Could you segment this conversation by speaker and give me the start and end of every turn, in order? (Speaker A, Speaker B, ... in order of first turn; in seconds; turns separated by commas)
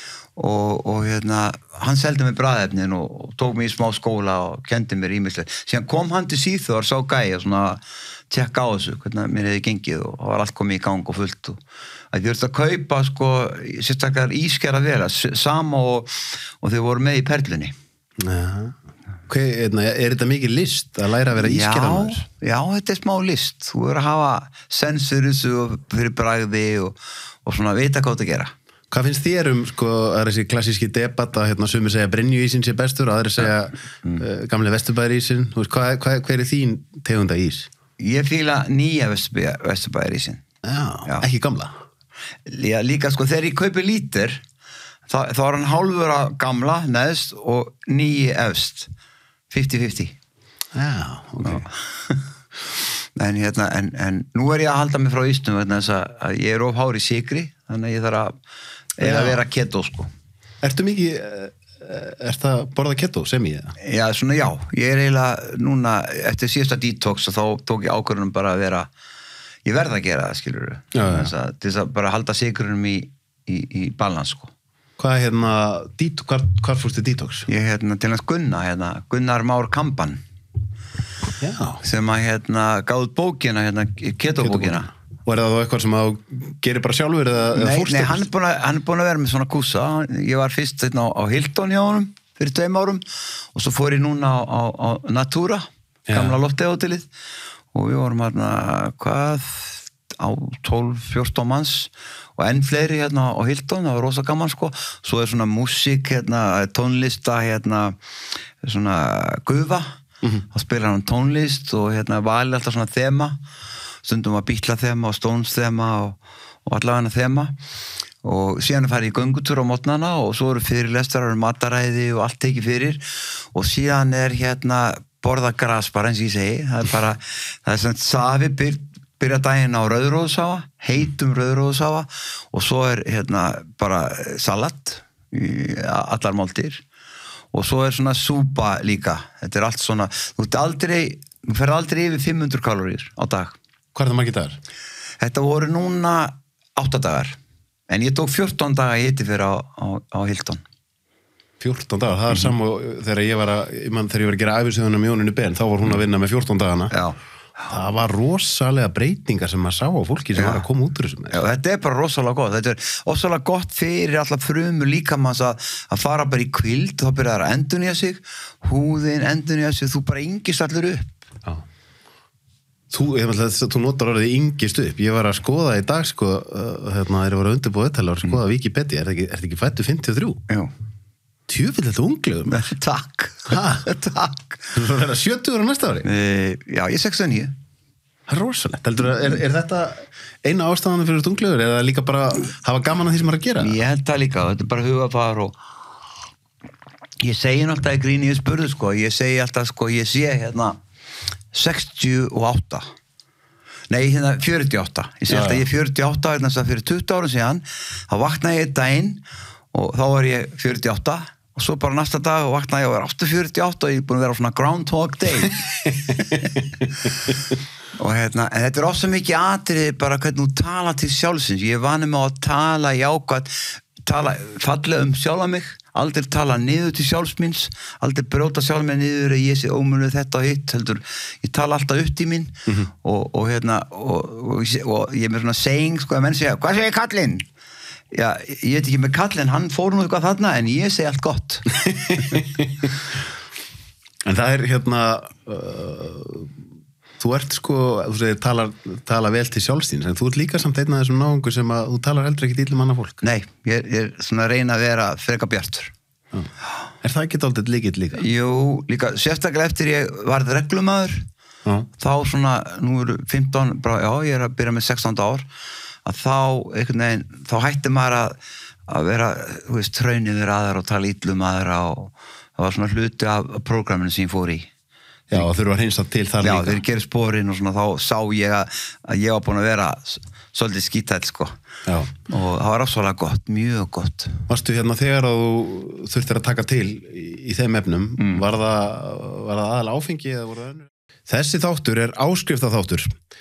Speaker A: 0.3-11.6, Speaker A: 12.1-17.7, Speaker B: 18.2-18.8, Speaker B: 19.3-22.2, Speaker A: 21.3-28.5, Speaker B: 28.9-37.7, Speaker A: 38.0-40.4, Speaker B: 40.6-41.7, Speaker A: 42.5-44.4, Speaker A: 45.1-48.9, Speaker A: 49.5-50.1, Speaker B: 50.7-51.6, Speaker A: 51.4-52.3, Speaker A: 53.1-58.3, Speaker A: 59.0-60.1, Speaker B: 59.0-59.4, Speaker B: 60.6-63.7, Speaker A: 63.8-68.9, Speaker A: 69.6-74.5, Speaker B: 70.9-71.3, Speaker B: 75.0-77.5, Speaker A: 77.5-80.2, Speaker B: 81.4-81.8, Speaker A: 81.8-84.9, Speaker B: 84.4-88.3, Speaker A: 87.5-93.0, Speaker A: 93.5-97.1, Speaker B: 96.1-96.4, Speaker A: 97.7-108.0, Speaker A: 108.6-109.9, Speaker A: 110.5-113.4, Speaker A: 114.0-117.5, Speaker A: 118.2-136.8, Speaker A: 137.5-143.6, Speaker B: 143.9-144.6, Speaker A: 145.2-147.3, Speaker A: 147.9-150.6, Speaker B: 151.6-156.9, Speaker A: 156.9-157.2, Speaker B: 157.7-161.4, Speaker A: 160.3-160.6, Speaker A: 161.3-171.2, Speaker B: 172.9-180.4, Speaker B: 181.5-182.6, Speaker A: 182.4-184.7, Speaker B: 183.5-183.9, Speaker B: 184.7-186.1, Speaker A: 186.0-187.5, Speaker B: 188.3-193.7, Speaker A: 193.6-195.6, Speaker A: 197.2-200.8, Speaker A: 201.5-202.8, Speaker A: 203.9-216.6, Speaker B: 205.3-205.7, Speaker A: 217.9-237.4, Speaker A: 238.1-242.4, Speaker B: 242.1-242.8, Speaker B: 244.2-246.6, Speaker B: 247.2-253.2, Speaker A: 253.2-255.9, Speaker B: 257.0-258.2, Speaker A: 258.1-261.2, Speaker A: 262.0-265.5, Speaker A: 266.0-274.7, Speaker B: 275.3-276.8, Speaker A: 276.4-281.5, Speaker B: 281.9-282.1, Speaker A: 282.3-284.4, Speaker B: 284.5-293.1, Speaker A: 288.2-288.4